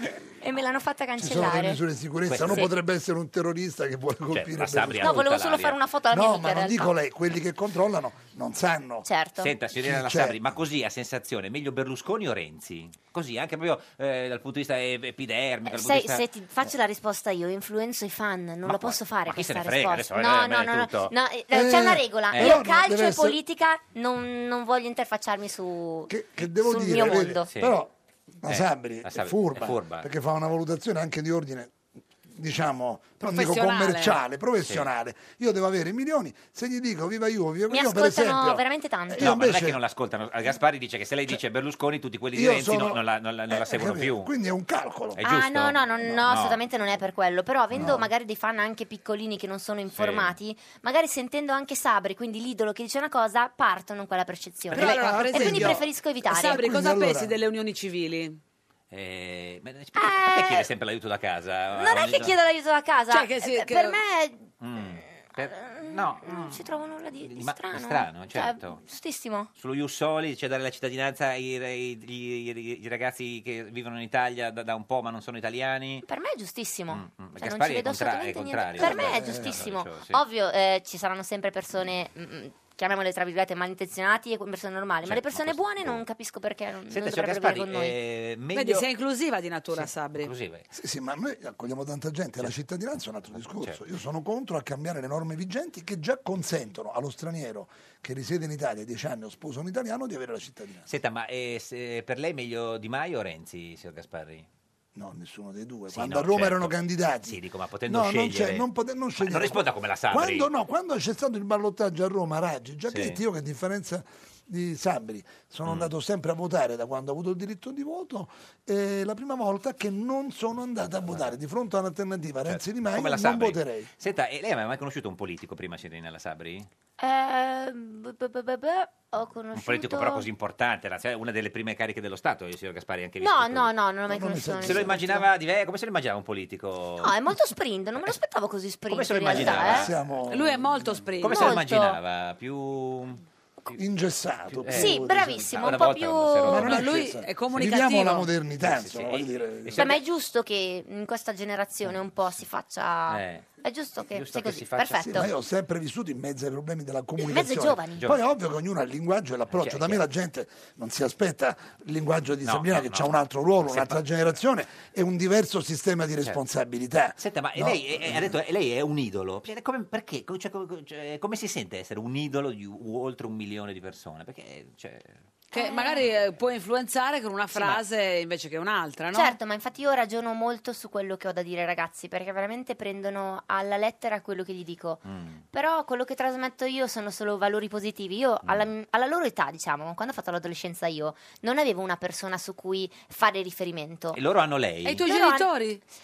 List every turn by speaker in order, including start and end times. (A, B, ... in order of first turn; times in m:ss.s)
0:00.4-0:01.8 A
0:01.2-0:05.3 B
0:02.2-0:02.7 C
0:04.3-0:05.8 C
0:05.0-0:06.9 A
0:06.1-0:09.0 B
0:09.0-0:09.5 A
0:09.4-0:16.2 C
0:09.8-0:10.4 B
0:15.6-0:27.5 A
0:18.6-0:21.1 C
0:21.5-0:23.4 B
0:22.3-0:22.6 C
0:26.1-0:27.9 B
0:27.4-0:27.8 C
0:28.4-0:31.7 B
0:28.4-0:30.1 C
0:32.3-0:39.8 B
0:33.2-0:34.2 D
0:37.7-0:39.3 A
0:39.2-0:44.3 C
0:42.3-0:45.2 B
0:45.2-0:46.6 C
0:45.2-0:56.6 A
0:47.7-0:48.1 C
0:47.7-0:48.1 B
0:49.9-0:50.4 C
0:54.7-0:57.3 B
0:54.7-0:58.4 D
0:54.7-0:55.8 C
0:58.9-1:02.4 C
0:59.9-1:00.7 A
1:01.7-1:09.5 A
1:03.1-1:04.0 D
1:04.6-1:08.8 C
1:09.6-1:16.1 C
1:16.1-1:28.0 A
1:16.9-1:20.2 C
1:18.8-1:19.6 B
1:25.0-1:26.0 C
1:26.9-1:28.9 C
1:28.5-1:30.3 D
1:29.7-1:30.7 C
1:30.7-1:40.9 B
1:33.3-1:33.8 C
1:40.9-1:44.5 C
1:45.0-2:03.9 B
1:45.9-1:50.5 C
1:52.9-1:53.2 C
1:55.6-1:55.9 C
2:00.8-2:01.3 C
2:02.4-2:06.7 C
2:07.0-2:10.3 A
2:09.5-2:13.7 C
2:13.2-2:15.3 A
2:14.1-2:15.2 B
2:14.6-2:17.2 C
2:17.0-2:19.9 A
2:18.9-2:19.9 C
2:19.3-2:21.1 B
2:20.3-2:21.5 D
2:21.2-2:23.8 C
2:21.3-2:22.0 A
2:23.7-2:25.9 B
2:24.5-2:26.9 C
2:24.7-2:26.6 A
2:26.5-2:29.9 B
2:26.5-2:28.3 D
2:28.6-2:30.0 C
2:29.8-2:35.3 A
2:33.1-2:33.5 C
2:34.1-2:35.3 C
2:35.0-2:48.3 B
2:37.2-2:38.0 A
2:37.9-2:38.2 C
2:39.5-2:40.0 C
2:42.4-2:44.0 C
2:47.2-2:55.2 C
2:55.5-2:59.4 D
2:55.5-2:56.0 A
2:57.5-2:57.8 C
2:59.1-3:05.0 A
3:05.0-3:05.4 C
3:05.5-3:14.2 A
3:14.1-3:15.0 C
3:14.8-3:15.8 D
3:15.0-3:15.5 A